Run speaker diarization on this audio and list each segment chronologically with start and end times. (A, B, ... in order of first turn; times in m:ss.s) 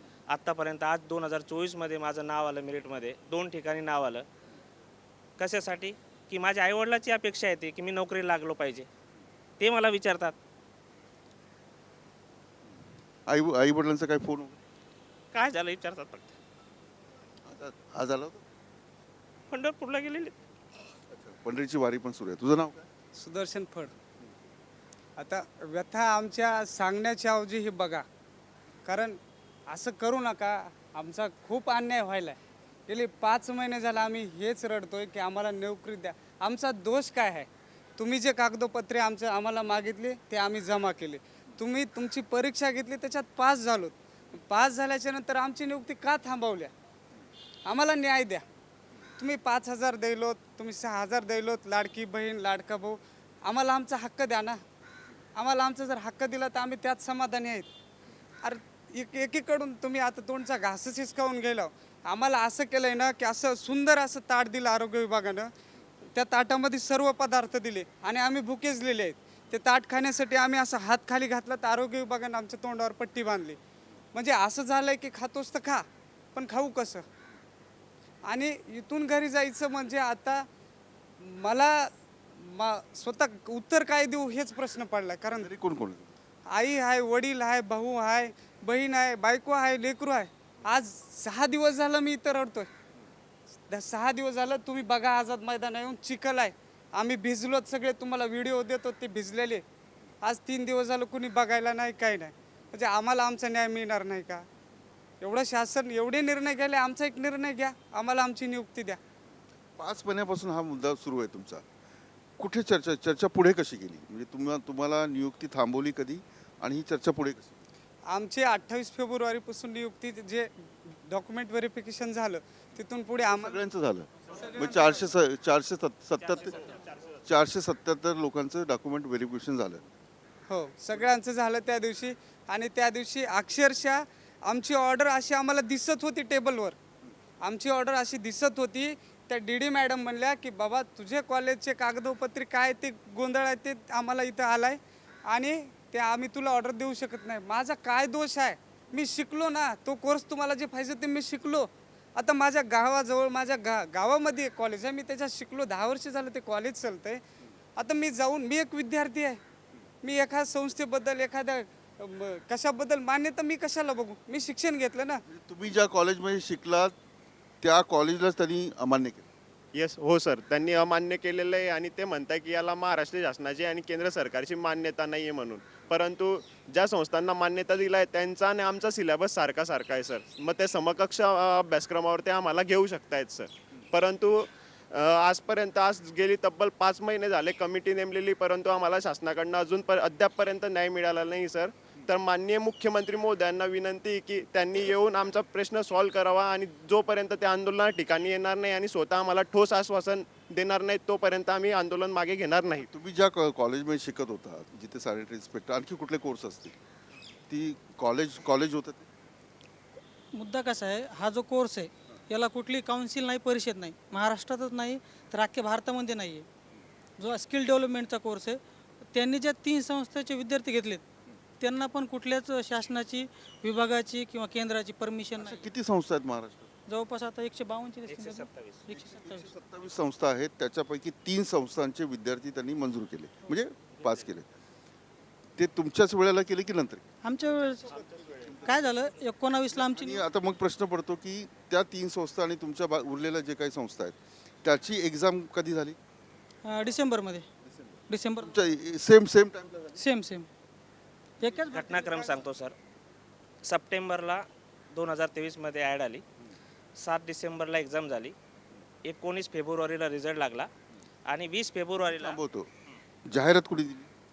0:00.3-0:04.3 A
0:05.4-0:08.9 A
0:09.6-0:10.4 A
0:13.3-0:14.6 B
0:15.3-0:16.4 A
0:17.4-0:18.4 B
0:19.5-0:20.4 A
0:21.1-0:22.9 B
0:23.2-0:23.9 C
0:25.2-0:28.0 C
0:28.8-0:46.7 C
0:47.6-0:48.4 C
0:49.2-0:54.6 C
0:55.4-0:57.7 C
0:58.4-1:05.5 C
1:06.1-1:13.6 C
1:14.1-1:17.0 C
1:18.3-1:20.5 C
1:21.2-1:25.5 C
1:25.4-1:26.1 B
1:26.5-1:32.7 C
1:33.7-1:39.6 C
1:40.2-1:44.4 C
1:45.2-1:49.0 C
1:49.8-1:51.6 B
1:52.4-1:57.6 B
1:58.1-2:03.6 C
2:03.4-2:06.6 B
2:04.3-2:05.1 C
2:06.2-2:07.1 A
2:07.2-2:09.9 B
2:10.5-2:16.8 C
2:17.4-2:37.2 C
2:37.8-2:39.4 C
2:40.0-2:45.2 C
2:45.3-2:46.9 B
2:47.6-2:49.3 B
2:49.7-3:22.9 D
3:22.8-3:26.7 B
3:27.5-3:29.1 B
3:30.3-3:36.4 E
3:37.2-3:38.6 E
3:39.1-3:41.0 E
3:41.6-3:45.6 E
3:45.4-3:46.7 B
3:46.9-3:49.5 E
3:48.1-3:48.8 A
3:48.9-3:54.4 B
3:53.9-3:54.3 A
3:55.6-3:57.0 B
3:57.2-3:58.0 E
3:57.9-3:58.7 A
3:58.3-3:58.8 B
3:58.6-4:00.2 E
3:59.7-4:06.0 B
4:06.6-4:07.4 E
4:08.1-4:08.6 E
4:08.4-4:10.0 B
4:10.0-4:10.5 E
4:11.4-4:12.3 E
4:11.7-4:12.8 A
4:13.6-4:16.2 A
4:17.0-4:18.4 A
4:19.0-4:20.7 A
4:21.3-4:23.0 A
4:22.1-4:22.7 B
4:23.2-4:24.1 B